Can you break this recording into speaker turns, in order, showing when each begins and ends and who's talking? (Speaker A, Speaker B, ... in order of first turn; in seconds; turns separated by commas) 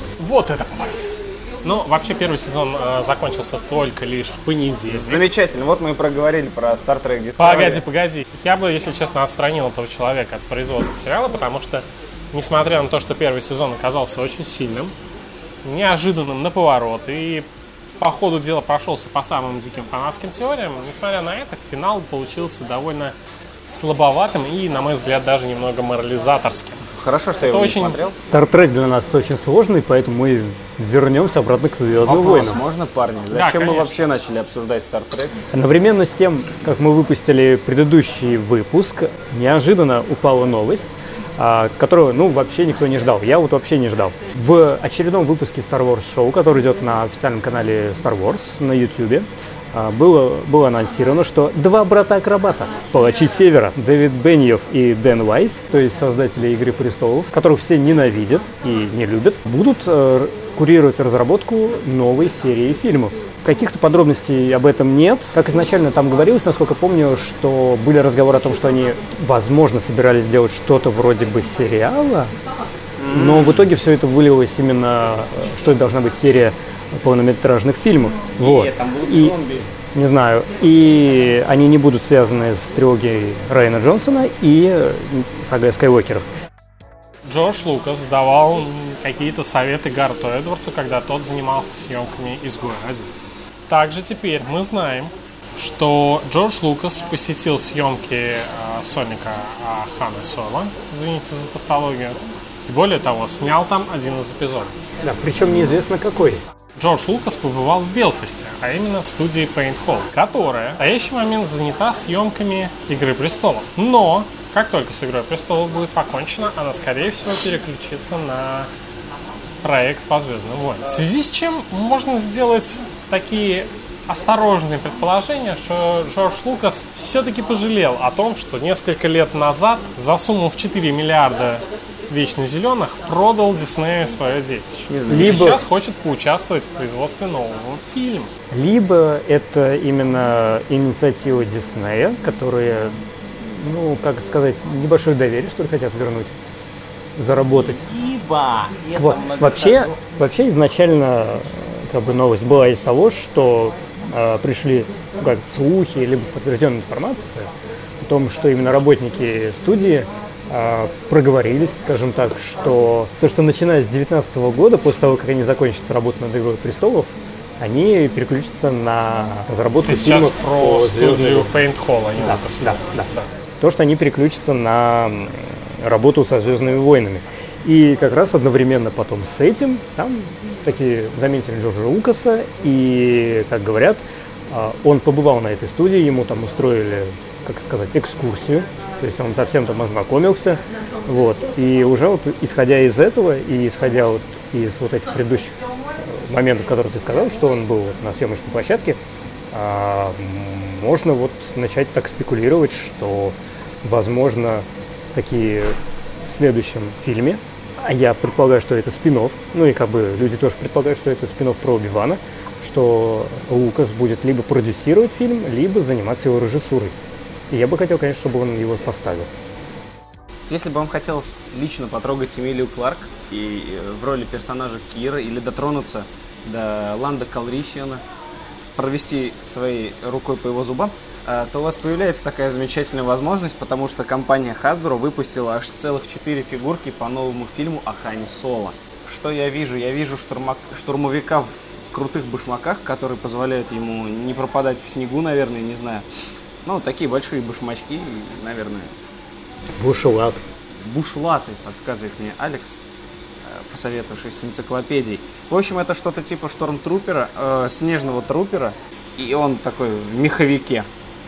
Speaker A: 0.2-1.1, Speaker A: 1.6-5.2, Speaker B: 4.9-7.8, Speaker A: 7.4-14.9, Speaker A: 15.6-17.5, Speaker A: 18.0-26.8, Speaker B: 26.8-28.3, Speaker A: 27.4-28.0, Speaker C: 28.3-32.6, Speaker B: 32.0-35.4, Speaker A: 33.3-34.0, Speaker C: 35.5-72.3, Speaker B: 73.0-73.7, Speaker C: 73.1-79.3, Speaker B: 78.4-79.7, Speaker C: 79.9-86.2, Speaker A: 87.2-93.1, Speaker A: 93.7-104.7, Speaker C: 105.0-106.4, Speaker A: 106.8-118.7, Speaker A: 119.6-138.3, Speaker B: 134.9-135.6, Speaker C: 135.1-135.6, Speaker C: 138.5-146.3, Speaker C: 147.2-147.9, Speaker B: 147.9-149.9, Speaker C: 148.9-157.5, Speaker C: 158.0-171.6, Speaker A: 169.8-173.3, Speaker C: 172.2-199.0, Speaker C: 199.5-217.0, Speaker C: 217.5-219.3, Speaker B: 220.5-228.0, Speaker B: 228.8-246.1, Speaker B: 246.6-248.9, Speaker C: 249.8-250.4, Speaker B: 250.8-252.8, Speaker B: 253.4-260.9